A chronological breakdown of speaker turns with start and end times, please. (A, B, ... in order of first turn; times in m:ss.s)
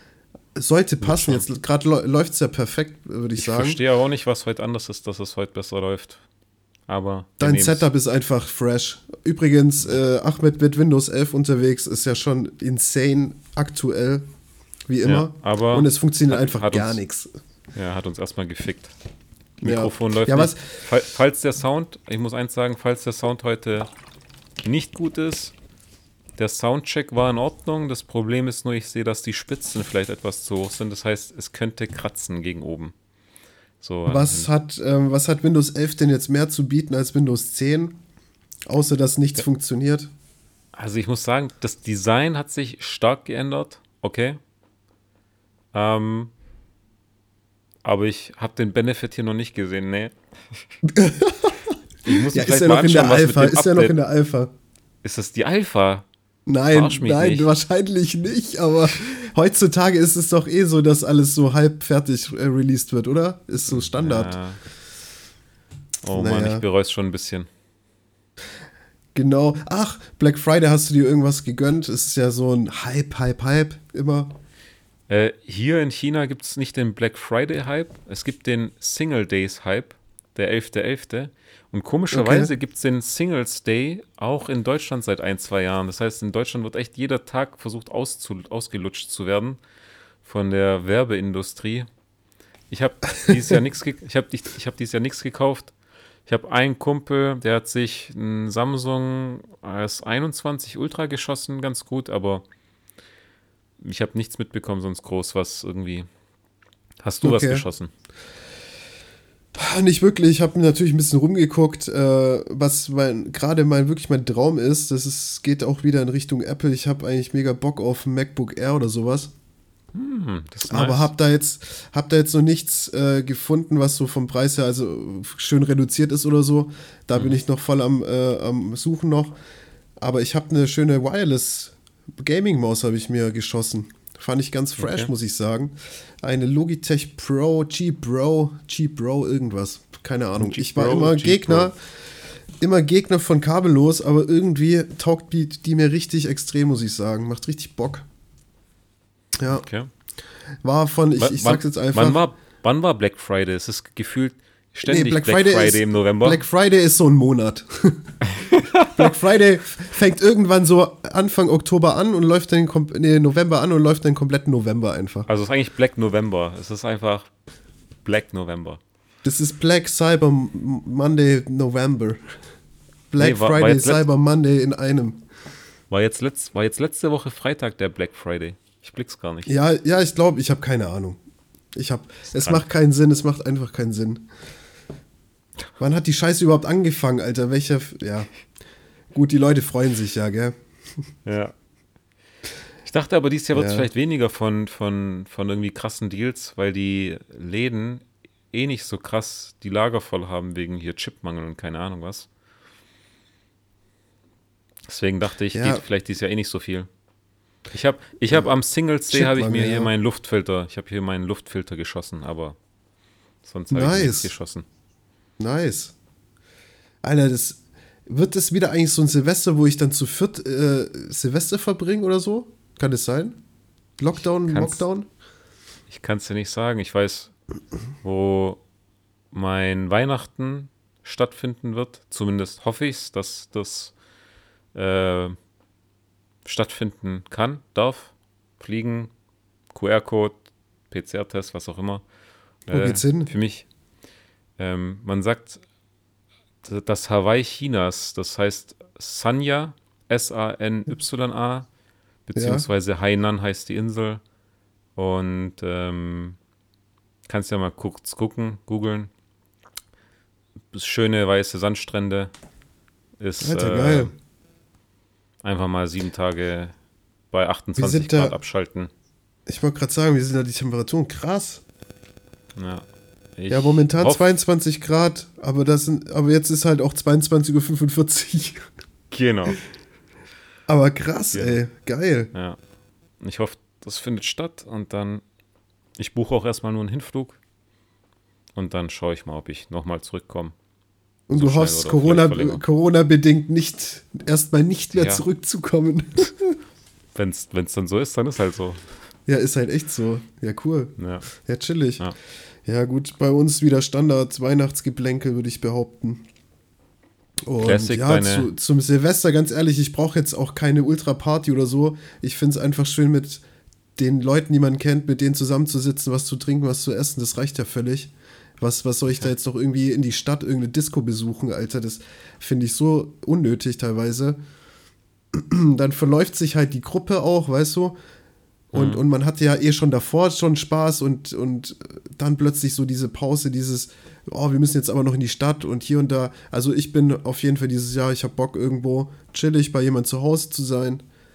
0:00.6-0:03.8 A
0:01.0-0:01.5 B
0:03.4-0:06.2 B
0:06.9-0:07.9 B
0:07.4-0:14.2 A
0:14.9-0:17.3 A
0:15.0-0:17.0 B
0:17.8-0:18.9 B
0:19.6-0:23.9 B
0:19.6-0:20.8 A
0:24.6-0:25.5 B
0:26.4-0:32.9 B
0:33.8-0:34.5 B
0:34.1-0:38.0 A
0:38.7-0:40.1 A
0:40.8-0:44.4 B
0:45.7-0:46.3 B
0:47.8-0:50.2 B
0:50.9-0:54.5 A
0:52.0-0:54.0 B
0:55.0-0:56.1 B
0:56.5-1:04.4 A
0:56.7-0:57.5 B
1:03.7-1:04.6 B
1:06.0-1:07.5 B
1:06.1-1:06.6 A
1:09.1-1:14.3 A
1:15.1-1:29.6 B
1:22.1-1:22.5 A
1:30.2-1:31.9 B
1:32.7-1:35.7 B
1:36.3-1:42.4 B
1:43.8-1:46.1 B
1:47.0-1:47.9 B
1:47.2-1:47.7 A
1:49.6-1:59.3 A
1:59.9-2:01.1 B
2:00.7-2:09.4 A
2:10.0-2:21.8 A
2:14.8-2:15.1 B
2:20.4-2:21.7 B
2:22.6-2:28.0 A
2:29.4-2:29.6 A
2:29.5-2:29.9 B
2:30.6-2:32.2 A
2:31.2-2:36.4 B
2:34.9-2:38.2 A
2:38.3-2:38.9 B
2:38.8-2:45.3 A
2:45.3-2:47.3 B
2:48.0-2:48.8 B
2:49.2-2:52.2 A
2:53.1-2:55.2 A
2:53.2-2:54.0 B
2:55.9-2:59.5 B
2:59.5-3:01.2 A
3:01.8-3:04.3 A
3:02.4-3:02.6 B
3:05.8-3:08.3 A
3:09.1-3:10.6 A
3:11.2-3:11.6 B
3:12.8-3:22.3 B
3:13.5-3:13.9 A
3:24.9-3:26.9 B
3:25.5-3:25.8 A
3:27.7-3:32.6 B
3:29.1-3:29.9 A
3:33.4-3:34.6 B
3:33.7-3:34.3 A
3:35.4-3:35.9 A
3:37.0-3:43.4 A
3:44.0-3:45.1 A
3:44.4-3:44.8 B
3:45.9-3:47.3 B
3:48.0-3:48.6 B
3:49.3-3:53.9 B
3:54.7-3:55.4 B
3:56.4-3:59.1 B
3:59.7-4:02.0 B
4:02.7-4:03.7 B
4:02.7-4:03.3 A
4:04.6-4:05.6 B
4:06.6-4:11.7 B
4:12.3-4:14.2 B
4:12.4-4:12.7 A
4:15.0-4:16.4 B
4:17.3-4:19.1 B
4:20.7-4:22.3 B
4:23.2-4:24.1 B
4:23.4-4:24.1 A
4:25.4-4:26.7 B
4:27.3-4:28.9 B
4:27.8-4:28.4 A
4:29.5-4:31.6 A
4:32.6-4:32.8 B
4:33.4-4:34.2 B
4:33.5-4:38.7 A
4:39.1-4:39.6 B
4:40.7-4:42.3 A
4:41.3-4:41.6 B
4:42.3-4:42.6 B
4:43.2-4:45.2 B
4:46.0-4:47.4 B
4:48.6-4:50.5 B
4:51.3-4:56.6 A
4:51.3-4:52.6 B
4:55.0-4:55.2 B
4:57.2-4:58.8 B
4:59.3-5:02.0 A
5:01.0-5:01.3 B
5:02.6-5:06.2 A
5:07.5-5:13.4 A
5:07.6-5:08.5 B
5:14.0-5:24.4 A
5:25.3-5:28.0 A
5:28.7-5:29.0 B
5:28.7-5:41.0 A